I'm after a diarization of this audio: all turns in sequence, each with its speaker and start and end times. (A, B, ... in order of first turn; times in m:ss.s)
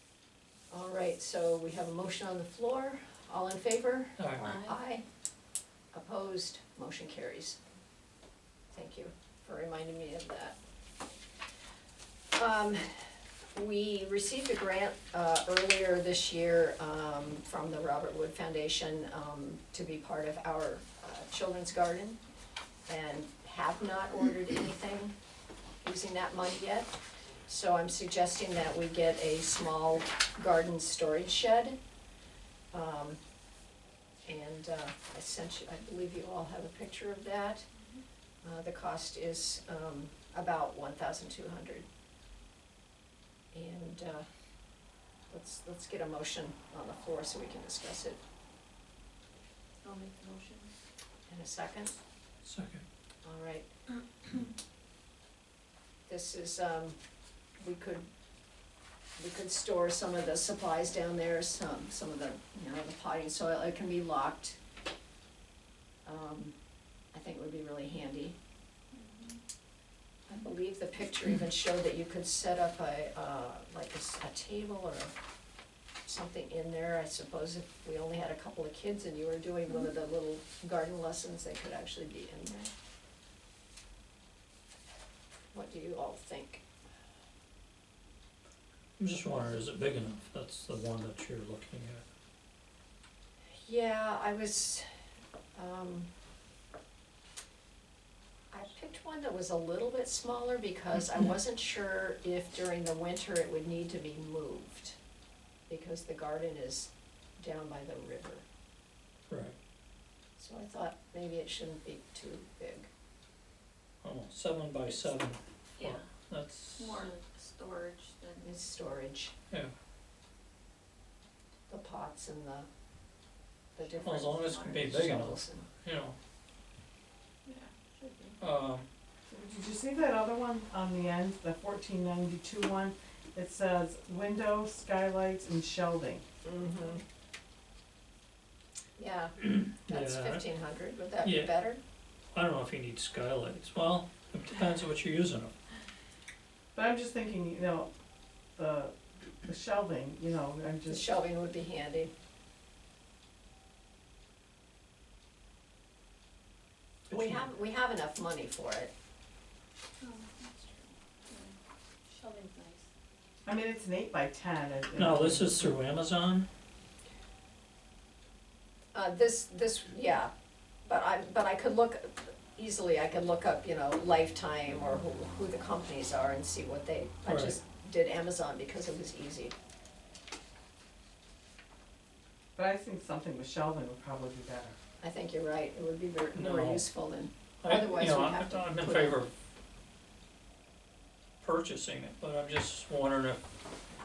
0:00.7-0:05.0 A
0:04.2-0:04.5 B
0:04.4-0:04.8 C
0:05.9-0:07.6 A
0:08.7-0:10.6 A
0:12.4-0:13.0 A
0:13.5-0:22.2 A
0:22.9-0:25.1 A
0:25.8-0:26.9 A
0:27.4-0:31.8 A
0:32.7-0:33.2 A
0:34.2-0:37.7 A
0:38.4-0:41.8 A
0:43.5-0:44.2 A
0:45.3-0:48.2 A
0:49.8-0:50.7 C
0:51.3-0:52.0 A
0:52.4-0:52.8 B
0:53.2-0:53.7 A
0:56.0-0:57.0 A
0:57.6-0:58.1 A
0:59.2-1:04.6 A
1:06.0-1:06.6 A
1:07.1-1:08.4 A
1:08.9-1:09.4 C
1:10.3-1:15.2 A
1:16.0-1:22.7 A
1:25.5-1:26.6 A
1:29.0-1:32.0 B
1:33.6-1:34.8 A
1:35.6-1:36.1 A
1:38.5-1:45.0 A
1:45.7-1:48.4 A
1:49.3-1:49.6 B
1:50.4-1:52.9 A
1:54.0-1:57.0 B
1:55.8-1:56.0 C
1:56.8-1:58.4 C
1:58.4-1:59.3 A
2:01.7-2:02.7 A
2:03.8-2:05.7 A
2:04.0-2:06.2 B
2:07.4-2:08.4 C
2:08.4-2:08.9 B
2:09.3-2:16.2 D
2:16.4-2:17.0 A
2:19.0-2:21.8 A
2:19.4-2:20.4 B
2:21.2-2:21.5 B
2:22.3-2:25.5 B
2:26.7-2:27.9 D
2:28.6-2:31.0 D
2:30.9-2:32.1 A
2:37.1-2:38.9 A
2:37.1-2:37.4 B
2:40.0-2:41.6 C
2:42.1-2:42.9 C
2:43.4-2:45.5 D
2:44.9-2:46.5 B
2:48.9-2:50.3 A
2:50.8-2:59.6 A
2:57.2-2:57.6 B
3:02.6-3:04.8 D
3:05.0-3:09.2 A
3:06.3-3:06.9 B
3:07.6-3:09.3 B
3:11.4-3:13.4 B